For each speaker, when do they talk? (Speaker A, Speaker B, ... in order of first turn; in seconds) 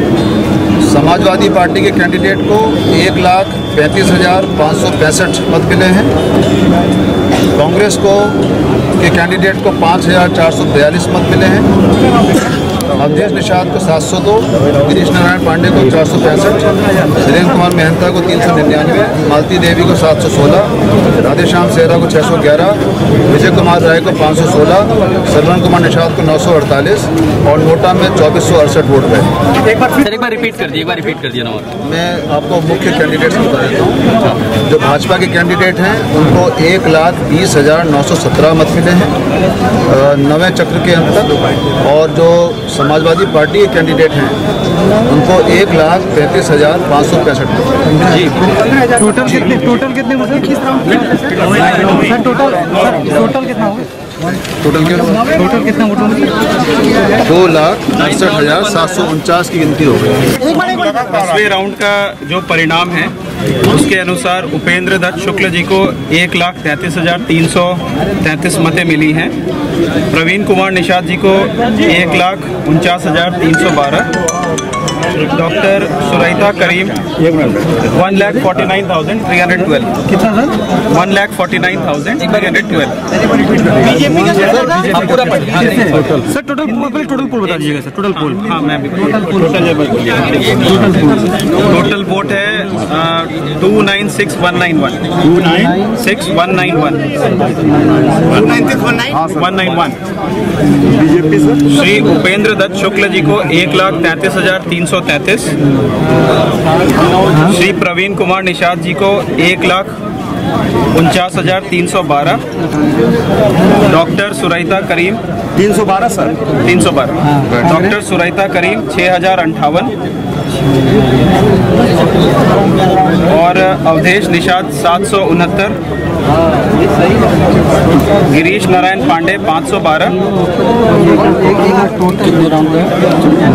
Speaker A: 0.8-6.1, 7.5-8.4, 9.0-11.7, 13.0-16.7, 17.2-29.3, 31.8-34.1, 34.6-39.1, 39.9-44.4, 45.1-47.8, 57.2-60.3
Speaker B: 29.9-31.7, 48.0-48.5, 51.7-52.0, 84.1-86.1, 90.5-90.9, 132.2-132.9
Speaker C: 48.6-53.9, 55.1-56.3, 80.1-80.5, 83.6-88.1, 90.7-91.2, 95.3-95.9, 98.3-99.1
Speaker D: 60.4-69.3, 70.1-74.1, 75.1-77.1, 77.9-79.9, 80.9-83.0, 88.4-90.5, 91.6-95.0, 95.8-97.5, 98.3-98.6, 99.3-100.0, 101.6-105.6, 107.4-109.9, 110.9-112.4, 113.8-119.9, 123.3-125.8, 128.2-130.2